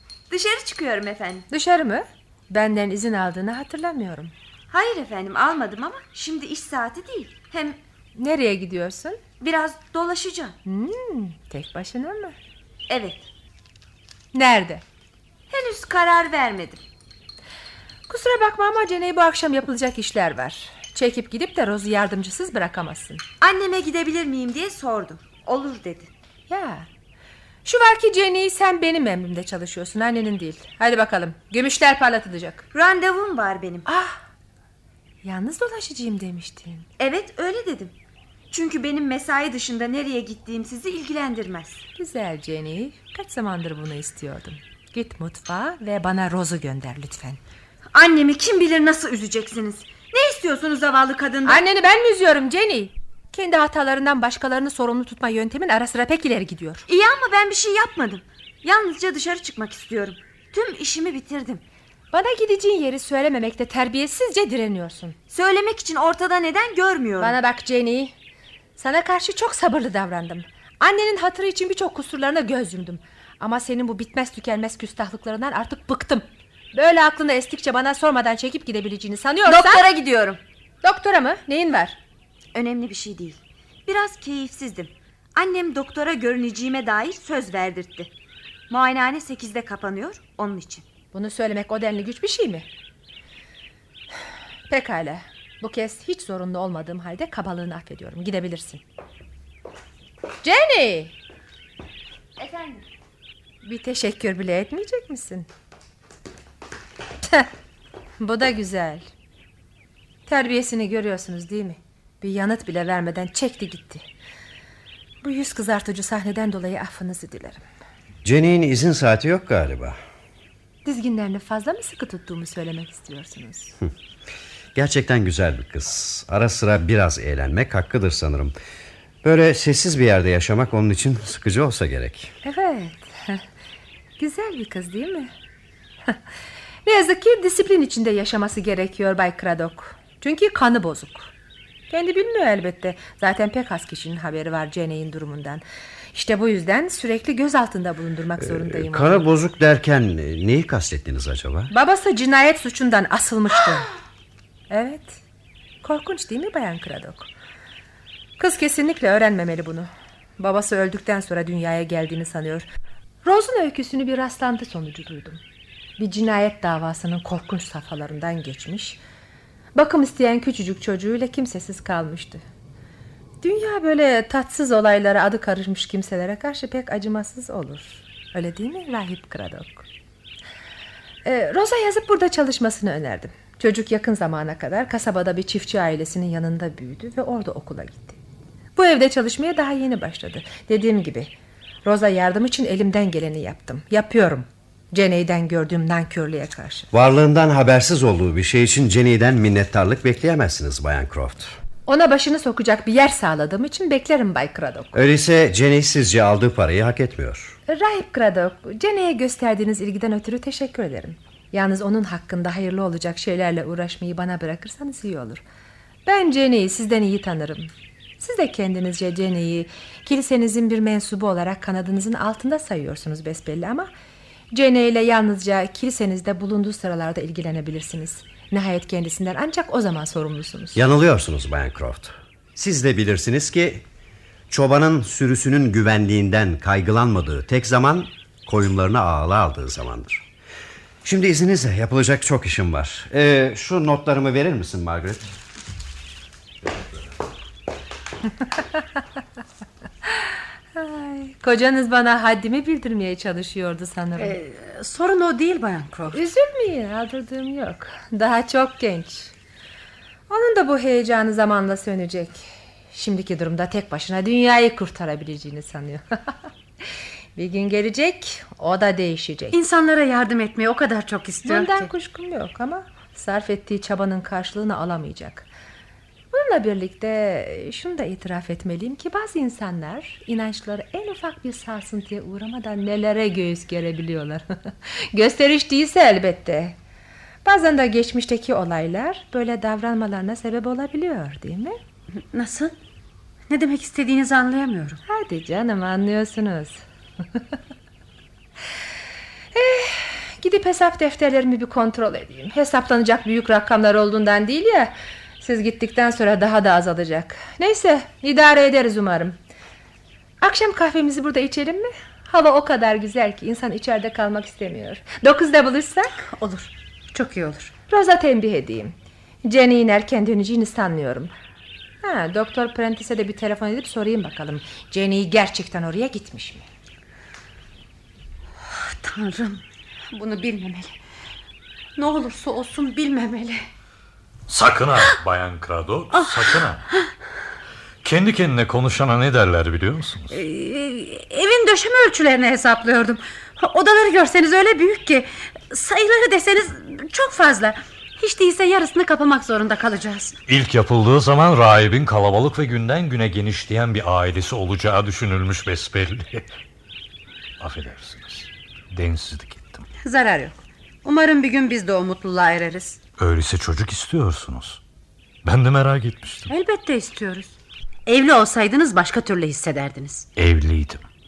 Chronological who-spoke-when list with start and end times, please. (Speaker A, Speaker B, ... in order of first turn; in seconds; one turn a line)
Speaker A: 0.3-1.4
Speaker B: 1.5-4.3
Speaker A: 4.7-7.8
Speaker B: 8.2-9.2
Speaker A: 9.4-10.5
Speaker B: 10.7-12.3
Speaker A: 12.9-13.2
Speaker B: 14.3-14.8
Speaker A: 15.5-16.8
Speaker B: 18.1-23.2
Speaker A: 23.4-26.1
Speaker B: 26.5-26.9
Speaker B: 27.6-32.6
Speaker A: 32.7-33.9
Speaker B: 33.9-34.2
Speaker B: 35.2-36.9
Speaker A: 37.0-37.9
Speaker A: 38.5-41.8
Speaker B: 42.0-47.4
Speaker A: 47.9-51.6
Speaker B: 51.4-56.8
Speaker A: 56.9-61.6
Speaker B: 62.1-65.2
Speaker A: 65.3-67.4
Speaker B: 67.2-68.1
Speaker B: 68.8-79.8
Speaker A: 79.4-80.4
Speaker B: 80.8-82.0
Speaker A: 82.5-88.1
Speaker A: 88.7-90.8
Speaker B: 91.1-92.7
Speaker B: 94.7-98.8
Speaker B: 100.4-101.1
Speaker A: 102.4-102.8
Speaker B: 103.6-105.5
Speaker B: 108.2-109.0
Speaker B: 110.3-114.0
Speaker B: 115.2-117.6
Speaker C: 118.2-120.0
Speaker B: 120.8-123.7
Speaker C: 124.7-128.5
Speaker C: 129.2-132.3
Speaker B: 132.4-133.4
Speaker B: 134.2-135.3
Speaker B: 136.8-141.3
Speaker B: 141.9-145.6
Speaker B: 146.1-149.3
Speaker C: 148.4-151.7
Speaker B: 151.7-153.9
Speaker B: 154.7-155.2
Speaker B: 155.8-157.3
Speaker B: 158.4-159.9
Speaker B: 160.4-162.7
Speaker B: 163.2-165.4
Speaker B: 166.0-169.0
Speaker B: 169.7-172.4
Speaker B: 173.4-179.8
Speaker B: 181.2-188.2
Speaker B: 188.8-191.3
Speaker B: 191.8-196.9
Speaker C: 196.9-201.6
Speaker B: 201.9-204.9
Speaker C: 204.9-207.6
Speaker B: 207.7-215.4
Speaker B: 216.1-223.9
Speaker B: 224.5-230.8
Speaker C: 230.7-233.8
Speaker C: 234.5-240.2
Speaker C: 241.0-245.2
Speaker B: 250.8-254.3
Speaker D: 254.2-256.2
Speaker B: 256.1-259.3
Speaker B: 260.3-266.0
Speaker B: 267.4-269.6
Speaker D: 269.5-271.9
Speaker B: 271.4-275.4
Speaker B: 276.3-286.8
Speaker B: 287.4-291.8
Speaker D: 292.2-292.7
Speaker D: 293.5-295.0
Speaker B: 295.1-296.8
Speaker B: 299.5-309.4
Speaker B: 310.4-316.1
Speaker D: 316.2-317.7
Speaker B: 317.9-321.3
Speaker B: 322.0-326.6
Speaker D: 328.8-331.0
Speaker D: 331.9-333.6
Speaker E: 334.5-336.8
Speaker D: 336.1-336.6
Speaker E: 338.0-340.3
Speaker D: 340.3-350.3
Speaker E: 350.5-356.5
Speaker E: 357.6-359.9
Speaker D: 360.0-363.0
Speaker E: 363.2-364.8
Speaker E: 365.4-366.5
Speaker D: 366.5-367.5
Speaker D: 368.1-370.2
Speaker E: 370.4-371.1